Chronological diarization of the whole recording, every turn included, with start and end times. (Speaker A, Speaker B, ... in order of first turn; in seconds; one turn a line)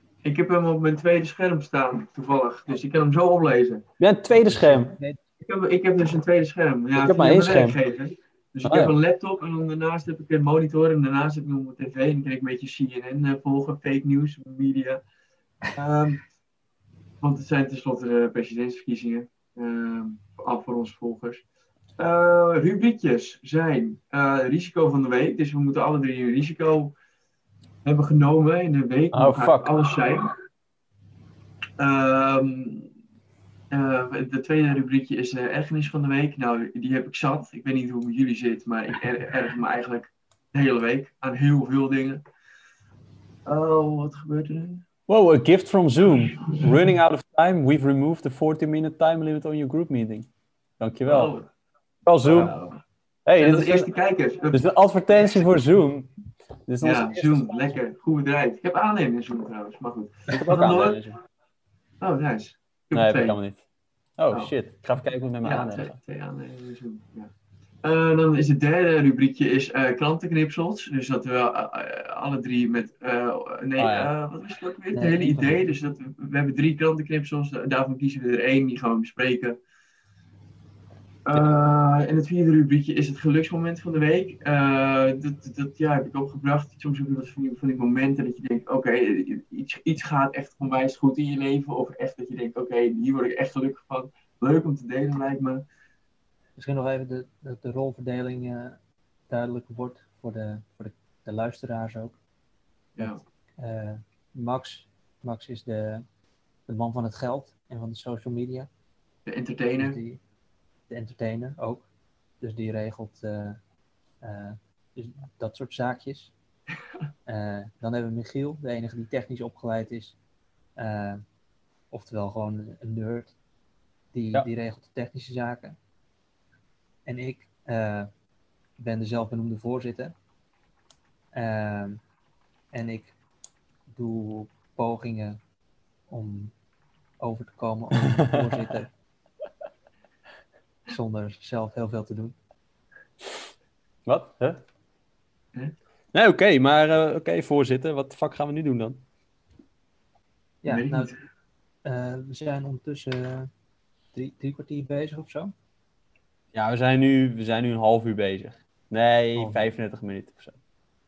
Speaker A: 0.2-3.9
Speaker B: 4.0-4.9
Speaker C: 4.3-5.2
Speaker A: 5.4-15.0
Speaker B: 7.0-7.8
Speaker B: 8.6-8.9
Speaker A: 15.7-16.2
Speaker A: 17.2-21.4
Speaker A: 22.0-26.9
Speaker A: 27.8-30.4
Speaker B: 29.1-29.7
Speaker A: 31.8-32.9
Speaker A: 33.7-42.2
Speaker A: 43.5-44.9
Speaker B: 45.1-50.3
Speaker B: 50.8-51.3
Speaker A: 51.1-51.5
Speaker B: 52.1-52.5
Speaker A: 52.2-52.8
Speaker B: 53.3-53.9
Speaker A: 53.4-54.6
Speaker B: 54.5-56.1
Speaker B: 56.7-57.6
Speaker A: 56.8-61.0
Speaker B: 60.3-61.2
Speaker A: 62.0-63.4
Speaker B: 62.9-63.6
Speaker B: 64.2-66.0
Speaker A: 65.4-67.3
Speaker A: 67.8-79.6
Speaker B: 73.8-74.1
Speaker C: 74.9-75.7
Speaker A: 81.2-95.7
Speaker C: 96.6-98.8
Speaker C: 99.3-102.2
Speaker C: 103.0-106.0
Speaker C: 106.7-108.7
Speaker A: 109.3-110.0
Speaker C: 109.8-110.2
Speaker C: 110.9-111.9
Speaker C: 112.4-113.6
Speaker C: 114.2-116.3
Speaker C: 117.3-120.2
Speaker C: 120.8-121.2
Speaker C: 121.9-123.3
Speaker C: 124.1-125.8
Speaker C: 127.1-128.1
Speaker C: 128.8-130.1
Speaker C: 131.3-132.0
Speaker C: 132.7-133.2
Speaker C: 133.9-135.4
Speaker C: 136.1-136.5
Speaker C: 137.2-138.9
Speaker B: 137.9-138.7
Speaker C: 140.9-142.3
Speaker B: 144.1-144.6
Speaker B: 146.1-149.0
Speaker C: 150.6-151.1
Speaker A: 150.7-151.2
Speaker C: 151.8-153.5
Speaker C: 154.1-155.5
Speaker B: 156.5-160.6
Speaker C: 159.4-159.7